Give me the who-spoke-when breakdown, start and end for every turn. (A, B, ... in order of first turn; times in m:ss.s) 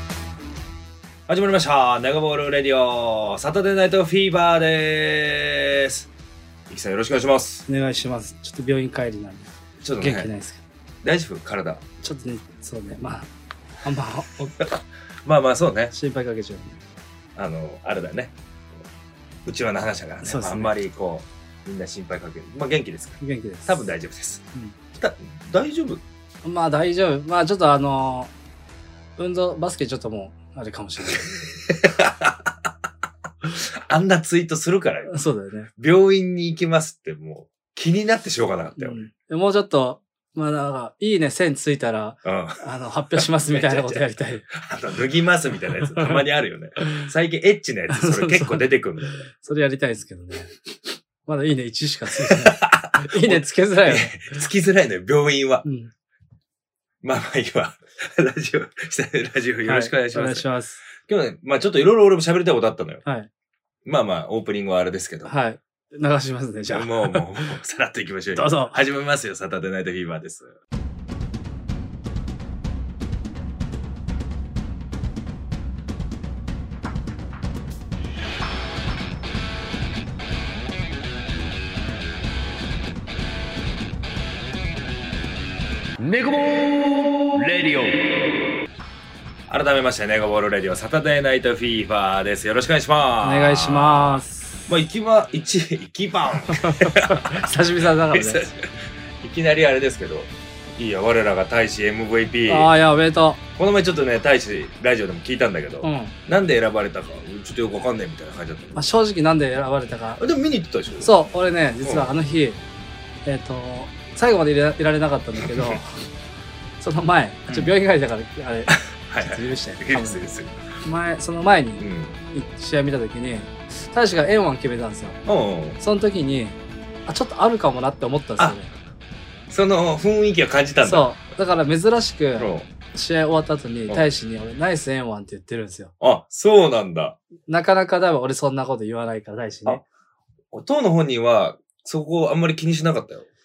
0:01.3-0:06.1 A
0:06.7-0:07.6 A
0:07.7-0:10.6 B
0:09.8-0:10.3 A
0:11.0-0:11.8 A
0:12.0-0:13.3 B
0:13.8-0:14.6 B
0:14.6-0:15.9 A
0:15.9-0:16.7 B
0:17.4-0:18.3 A
0:19.4-0:24.4 A
0:20.2-0:20.7 B
0:23.2-0:23.8 B
0:24.9-0:26.0 A
0:26.4-0:28.3 B
0:29.2-0:31.5 B
0:31.3-0:32.5 A
0:33.5-0:35.1 A
0:35.1-0:35.7 B
0:35.8-0:39.0 A
0:38.8-0:44.5 B
0:42.2-0:49.3 A
0:46.8-0:47.1 B
0:47.9-0:50.5 B
0:51.2-0:54.4 B
0:52.1-0:55.6 A
0:55.6-0:55.9 B
0:57.0-1:03.0 A
0:59.6-1:00.8 B
1:03.8-1:05.3 A
1:05.2-1:07.6 B
1:06.7-1:10.5 A
1:08.3-1:08.7 B
1:26.0-1:28.3 C
1:29.5-1:42.7 A
1:33.2-1:34.6 B
1:36.5-1:38.4 B
1:42.5-1:43.4 B
1:43.6-1:48.9 A
1:45.8-1:46.1 B
1:48.7-1:50.2 B
1:50.2-1:51.1 A
1:51.0-1:52.6 B
1:51.8-1:52.1 A
1:53.2-1:56.0 B
1:55.4-1:55.8 A
1:56.8-2:00.2 B
1:57.5-1:57.8 A
1:58.7-2:00.6 A
2:00.8-2:05.2 B
2:01.8-2:02.2 A
2:05.2-2:05.8 A
2:05.8-2:08.7 B
2:09.5-2:11.1 A
2:10.8-2:15.9 B
2:12.4-2:12.7 A
2:16.0-2:17.2 A
2:17.5-2:19.8 B
2:20.5-2:23.3 A